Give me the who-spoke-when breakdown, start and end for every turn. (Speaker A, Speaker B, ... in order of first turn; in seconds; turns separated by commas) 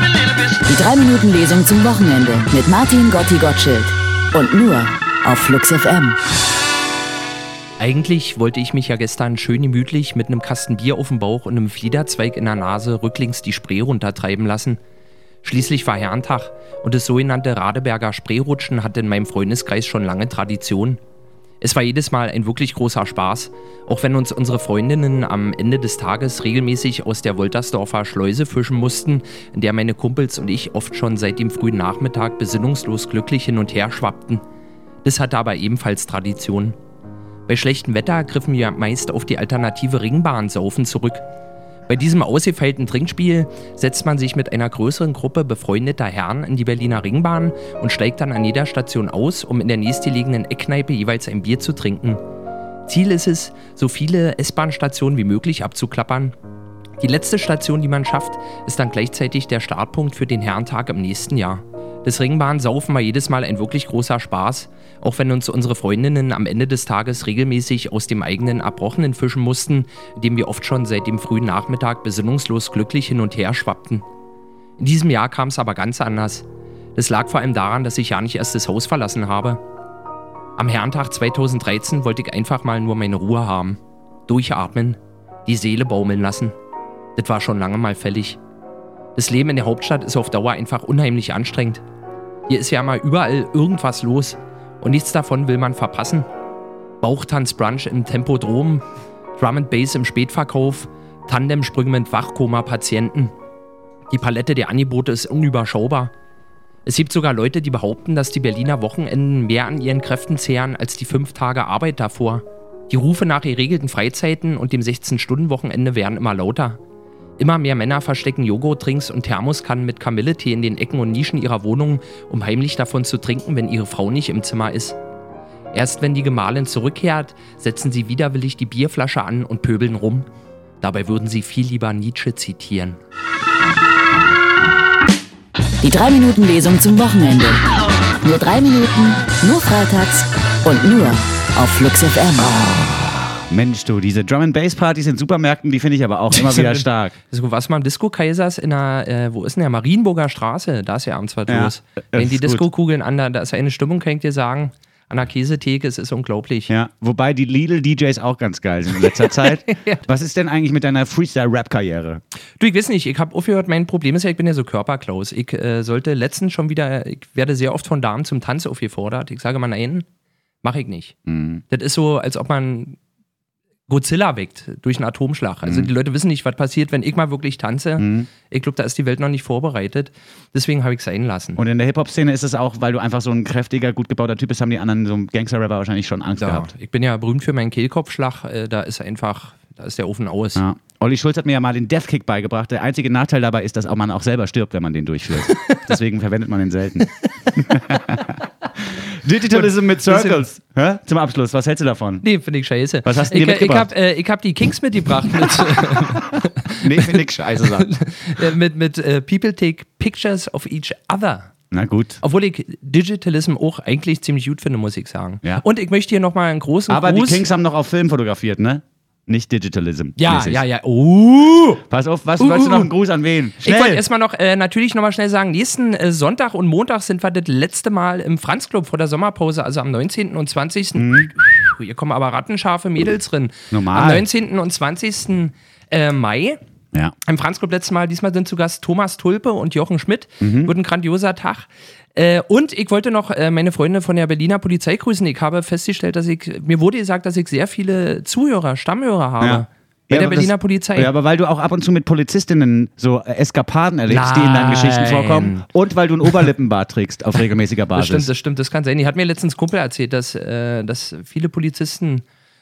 Speaker A: 0.6-6.2, Speaker B: 7.8-14.8, Speaker B: 15.4-21.0, Speaker B: 21.6-34.4, Speaker B: 35.0-36.8, Speaker B: 37.5-41.2, Speaker B: 41.9-52.2, Speaker B: 52.9-56.3, Speaker B: 57.0-74.0, Speaker B: 74.8-79.6, Speaker B: 80.6-86.5, Speaker B: 87.2-88.4, Speaker B: 89.2-91.8, Speaker B: 92.5-96.3, Speaker B: 97.0-98.8, Speaker B: 99.4-103.3, Speaker B: 104.1-106.1, Speaker B: 106.8-116.8, Speaker B: 117.4-125.0, Speaker B: 125.7-130.3, Speaker B: 130.8-133.0, Speaker A: 135.8-142.5, Speaker C: 142.4-147.2, Speaker B: 146.3-156.7, Speaker C: 151.5-152.7, Speaker C: 156.7-162.2, Speaker B: 159.0-160.0, Speaker B: 162.6-170.1, Speaker B: 170.6-171.2, Speaker C: 171.3-171.6, Speaker B: 171.7-173.0, Speaker B: 173.9-181.6, Speaker C: 175.6-175.9, Speaker C: 178.0-178.3, Speaker C: 181.6-186.7, Speaker B: 186.4-190.6, Speaker C: 190.6-202.2, Speaker B: 195.5-195.8, Speaker B: 197.3-197.6, Speaker B: 199.5-200.4, Speaker B: 202.2-211.5, Speaker C: 203.0-203.9, Speaker C: 206.7-207.9, Speaker C: 211.7-212.2, Speaker B: 212.2-217.4, Speaker C: 216.9-220.6, Speaker B: 220.2-221.8, Speaker C: 221.9-224.0, Speaker B: 222.4-222.9, Speaker B: 223.6-236.6, Speaker C: 231.0-231.3, Speaker C: 233.7-234.3, Speaker B: 237.3-251.1, Speaker C: 240.4-240.7, Speaker C: 249.4-258.3, Speaker B: 254.1-255.7, Speaker B: 257.9-262.2